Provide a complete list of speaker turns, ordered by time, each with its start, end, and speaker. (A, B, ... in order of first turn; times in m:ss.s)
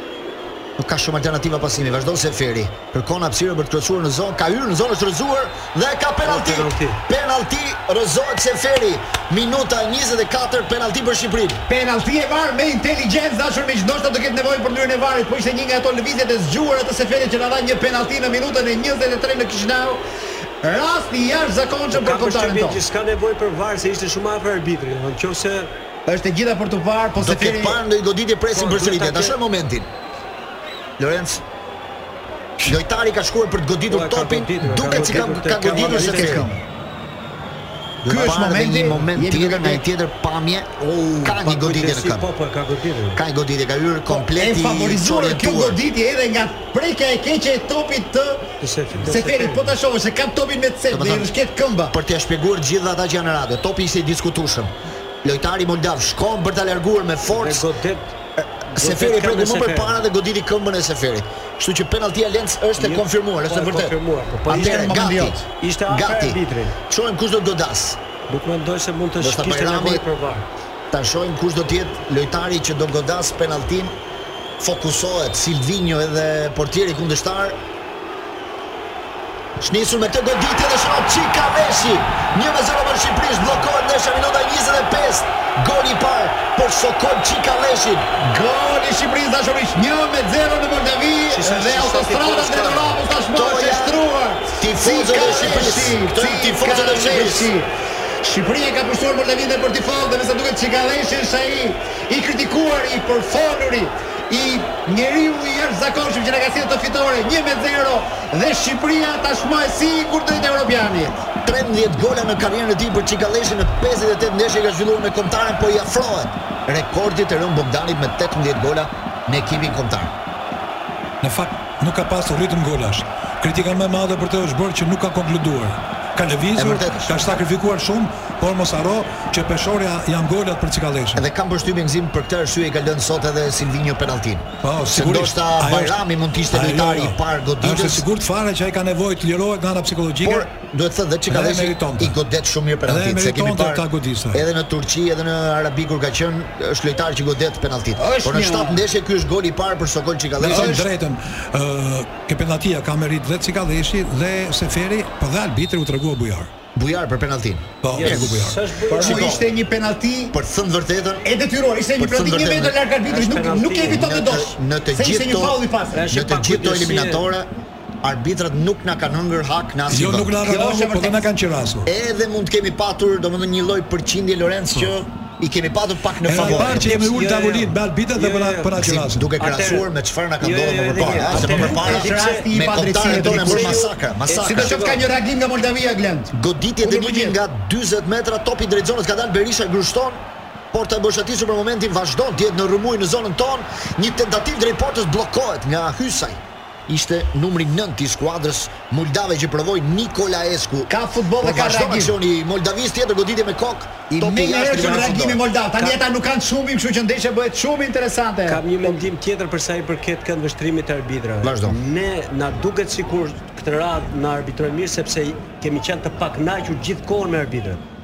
0:00.8-0:11.6 A
0:06.2-0:07.0 B
0:11.7-0:20.0 C
0:20.6-0:22.8 C
0:21.9-0:25.7 B
0:26.1-0:27.8 C
0:27.2-0:29.9 A
0:28.5-0:29.4 B
0:31.0-0:31.4 A
0:32.6-0:36.5 A
0:33.9-0:36.5 B
0:35.7-0:36.6 C
0:38.0-0:42.3 A
0:38.0-0:39.8 C
0:40.8-0:41.4 C
0:41.4-0:43.2 B
0:43.1-0:45.8 A
0:44.1-0:52.0 C
0:48.6-0:49.7 B
0:50.9-0:51.3 A
0:51.9-0:57.7 A
0:57.3-0:58.1 B
0:58.4-1:03.9 A
0:58.6-1:00.0 B
1:02.8-1:05.0 B
1:04.5-1:05.4 C
1:04.5-1:08.0 A
1:05.6-1:06.7 B
1:08.3-1:10.4 B
1:09.2-1:10.0 A
1:10.9-1:13.9 A
1:14.6-1:17.6 A
1:19.6-1:28.1 A
1:28.2-1:37.7 C
1:31.3-1:33.0 B
1:33.3-1:34.0 A
1:34.6-1:37.5 A
1:38.2-1:51.3 C
1:51.4-2:00.1 A
2:01.2-2:11.2 D
2:06.6-2:07.4 A
2:11.2-2:18.0 A
2:14.6-2:20.5 D
2:20.2-2:30.9 A
2:21.3-2:22.2 D
2:22.8-2:24.4 D
2:28.0-2:28.8 C
2:30.4-2:36.5 D
2:36.7-2:39.5 A
2:37.8-2:38.6 D
2:37.9-2:39.4 B
2:38.9-2:40.4 C
2:40.3-2:41.3 A
2:41.2-2:46.1 C
2:42.0-2:42.8 A
2:43.1-2:44.1 B
2:43.8-2:47.5 A
2:45.9-2:47.2 B
2:48.0-2:50.3 A
2:49.9-2:51.9 D
2:50.4-2:51.2 C
2:51.8-2:57.0 A
2:56.2-2:59.3 D
2:56.4-3:05.0 B
2:58.8-3:04.9 A
3:01.2-3:07.4 C
3:06.3-3:10.2 A
3:10.7-3:25.8 A
3:20.9-3:22.1 C
3:24.1-3:29.0 C
3:28.4-3:37.8 B
3:31.4-3:31.8 A